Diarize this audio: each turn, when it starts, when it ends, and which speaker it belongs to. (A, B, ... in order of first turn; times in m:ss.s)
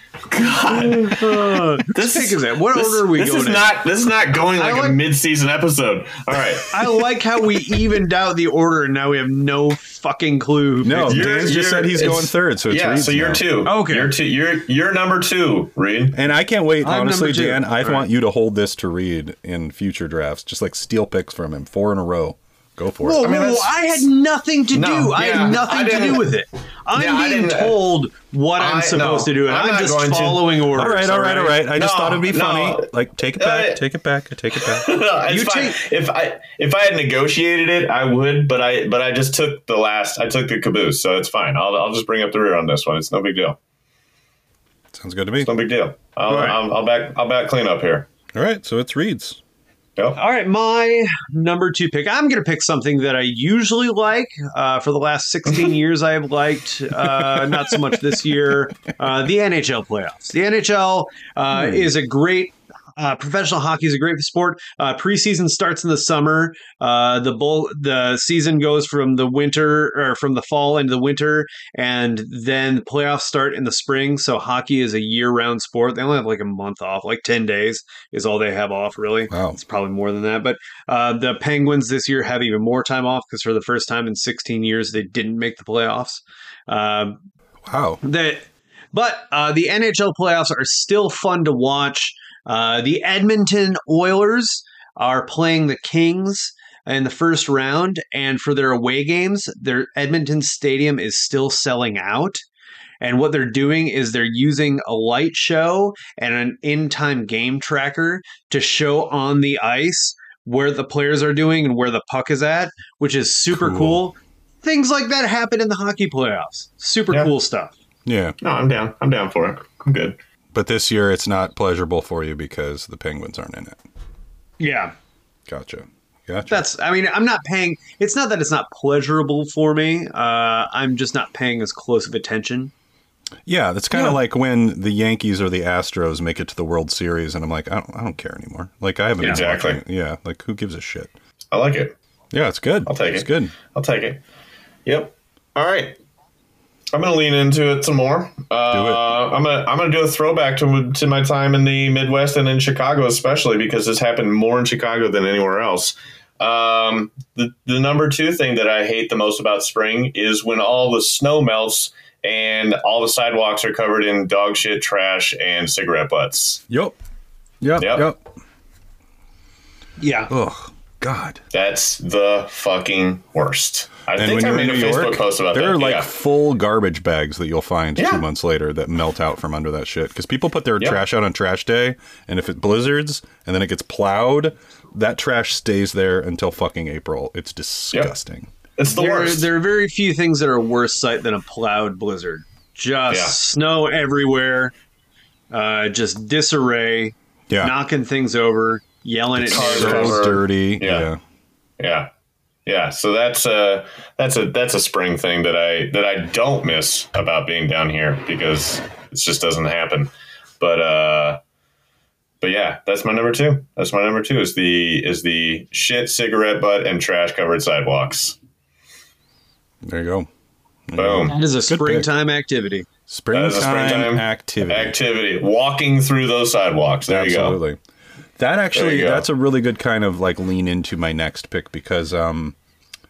0:00.3-0:07.0 A
0:00.7-0:03.8 B
0:04.6-0:05.0 B
0:06.7-0:11.5 B
0:10.8-0:13.4 C
0:11.1-0:16.2 A
0:13.6-0:14.1 B
0:16.1-0:23.2 C
0:16.8-0:18.0 B
0:23.0-0:31.6 B
0:23.2-0:23.9 A
0:24.7-0:26.3 A
0:26.9-0:27.9 A
0:28.6-0:30.6 A
0:30.7-0:35.0 C
0:31.7-0:33.8 A
0:34.6-0:43.6 A
0:35.3-0:35.8 B
0:44.9-0:45.5 C
0:45.4-0:48.1 A
0:46.3-0:46.6 B
0:48.3-0:49.4 C
0:50.1-1:27.2 B
1:19.3-1:19.6 C
1:27.6-1:28.0 C
1:28.0-1:42.4 B
1:43.0-1:57.7 B
1:53.5-1:54.0 C
1:58.0-1:58.4 C
1:58.4-2:00.2 A
2:00.5-2:03.8 C
2:04.6-2:04.9 B
2:05.5-2:06.6 C
2:06.5-2:12.7 B
2:13.4-2:21.1 C
2:13.9-2:14.2 B
2:19.2-2:19.8 A
2:21.5-2:21.9 A
2:22.3-2:23.5 C
2:22.8-2:24.2 A
2:24.8-2:26.0 A
2:26.9-2:46.6 A
2:28.7-2:29.0 C
2:46.7-2:47.0 C
2:47.6-2:48.2 C
2:47.8-2:48.1 A
2:50.0-2:50.3 B
2:50.3-2:51.4 C
2:51.5-2:56.1 A
2:54.2-3:08.5 C
2:58.0-2:58.2 A
3:08.8-3:09.5 A
3:08.8-3:14.7 B
3:13.1-3:13.4 A
3:15.5-3:20.2 B
3:19.4-3:21.2 C
3:19.5-3:21.1 A
3:21.8-3:22.1 A
3:22.6-3:31.4 A
3:32.4-3:38.4 A
3:39.8-3:40.3 C
3:40.9-3:42.1 C
3:41.0-3:41.4 A
3:41.2-3:42.9 B
3:43.1-3:45.0 C
3:43.3-3:47.6 A
3:47.1-3:47.8 C
3:48.4-3:52.6 C
3:48.7-3:49.2 A